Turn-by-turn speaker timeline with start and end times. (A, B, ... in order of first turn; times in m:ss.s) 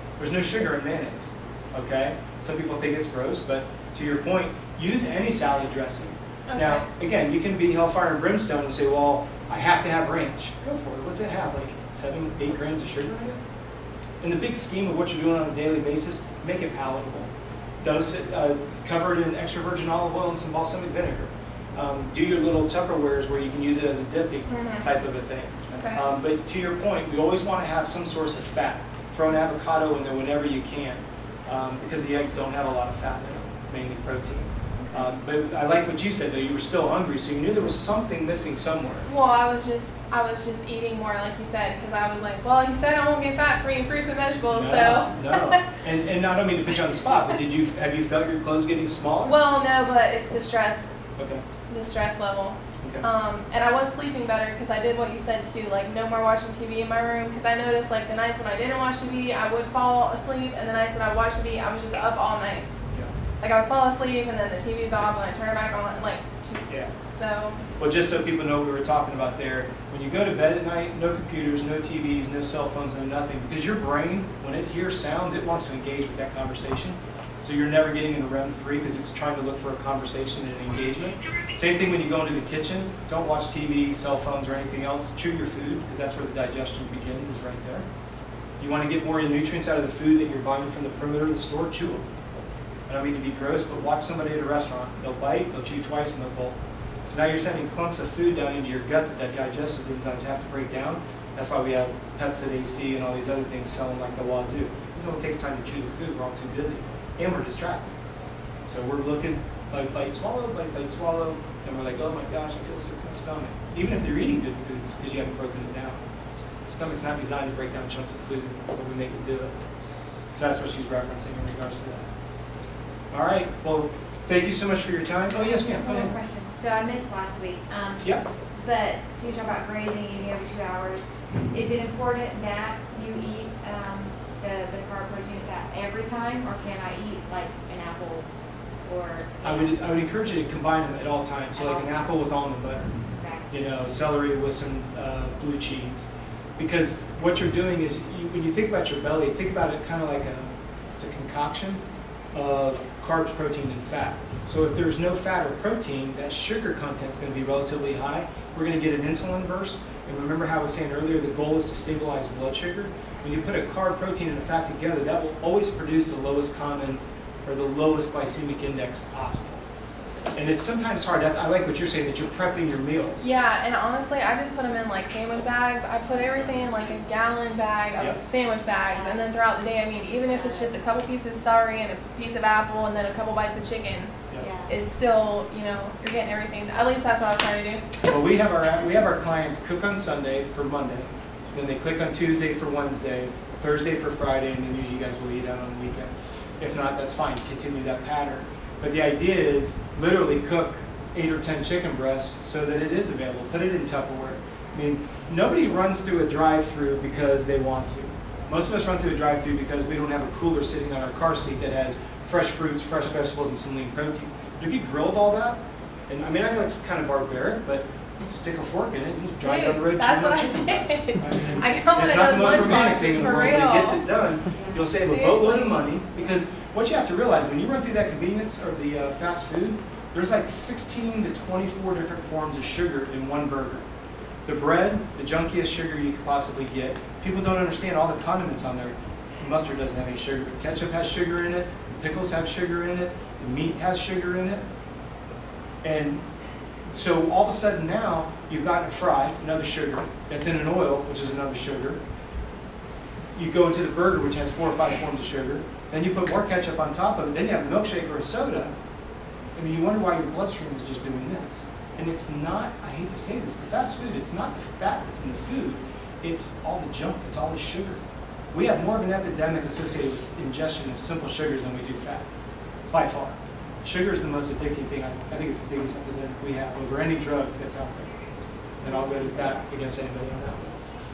0:00.2-0:13.4 A
0:06.5-0:06.8 B
0:14.2-0:17.3 A
0:17.8-0:39.1 A
0:24.5-0:24.8 B
0:25.7-0:26.0 B
0:39.1-0:45.6 B
0:44.5-0:49.4 A
0:49.2-0:50.9 B
0:51.2-0:51.4 A
0:51.7-1:02.7 B
0:52.8-0:53.1 A
1:03.4-1:07.6 B
1:07.8-1:27.9 A
1:28.6-1:32.0 A
1:32.9-1:47.9 A
1:48.7-1:59.5 A
2:00.3-2:02.1 A
2:03.1-2:06.3 A
2:05.3-2:18.3 C
2:18.8-2:19.8 C
2:19.4-2:22.9 A
2:21.6-2:22.2 C
2:23.2-2:23.5 C
2:23.5-2:31.8 A
2:32.3-2:49.6 A
2:50.4-2:53.3 A
2:53.2-3:04.1 B
2:58.9-2:59.4 C
3:00.0-3:00.8 C
3:04.4-3:04.7 C
3:04.7-3:07.9 B
3:08.1-3:53.8 A
3:39.4-3:44.0 B
3:44.9-3:45.8 B
3:54.4-4:04.6 A
4:05.8-4:06.2 A
4:06.9-4:12.0 A
4:13.4-4:18.7 A
4:19.6-4:28.0 A
4:28.5-4:32.3 A
4:32.9-4:38.1 A
4:38.8-4:40.8 A